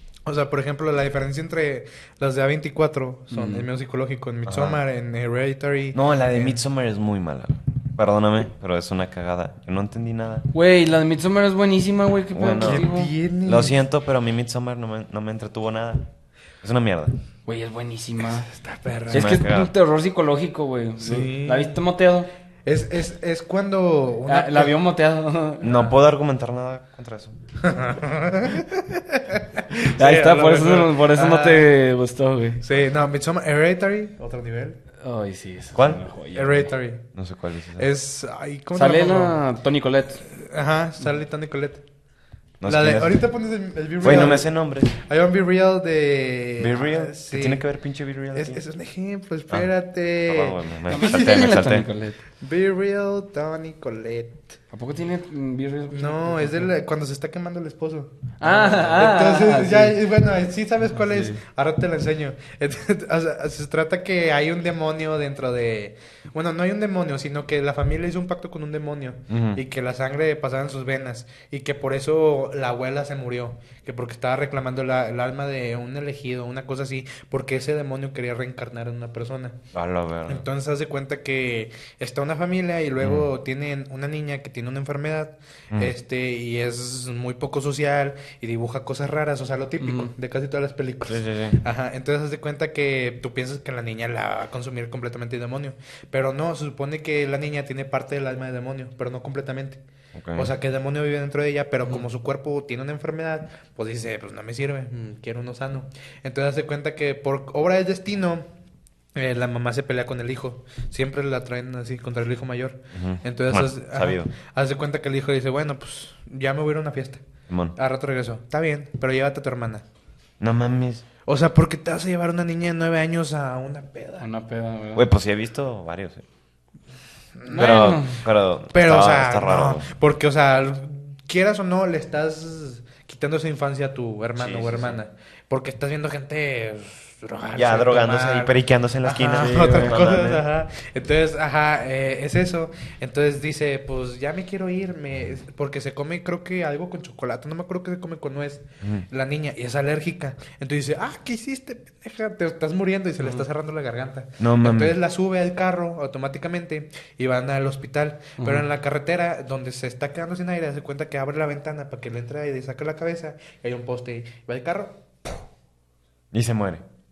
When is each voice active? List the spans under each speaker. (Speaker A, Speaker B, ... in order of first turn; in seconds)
Speaker A: 0.2-6.6, 12.6-13.8, 18.4-19.4, 21.0-21.8, 22.6-24.8, 27.6-31.7, 32.6-34.8, 36.3-37.0, 37.8-39.4, 40.3-41.8, 42.6-47.6, 48.3-51.6, 52.4-54.6, 55.9-79.6, 80.3-99.8, 100.3-108.5, 109.1-117.2, 117.8-119.8, 121.3-124.3, 127.4-127.9, 128.7-165.4
Speaker B: 3.3-3.6, 10.5-13.1, 17.4-18.5, 19.1-22.3, 24.2-25.8, 29.9-32.6, 35.0-36.7, 38.7-40.2, 44.0-44.3, 50.9-52.2, 54.7-56.7, 58.4-60.0, 60.9-61.4, 89.8-90.1, 124.2-125.0, 127.5-128.2, 139.3-140.1, 158.4-158.6
Speaker C: 4.5-4.8, 5.9-10.5, 12.3-12.9, 13.4-16.1, 16.6-17.1, 19.1-19.7, 25.6-27.4, 35.7-36.0, 37.1-37.9, 42.6-43.2, 44.0-44.9, 46.6-48.6, 49.5-51.9, 69.3-69.6, 79.7-80.4, 83.0-83.3, 91.1-91.6, 100.1-100.5, 112.9-114.3, 117.5-117.8, 120.4-121.0, 124.9-126.2, 127.5-129.9, 134.4-135.0, 137.5-140.4, 154.4-154.9, 166.3-166.8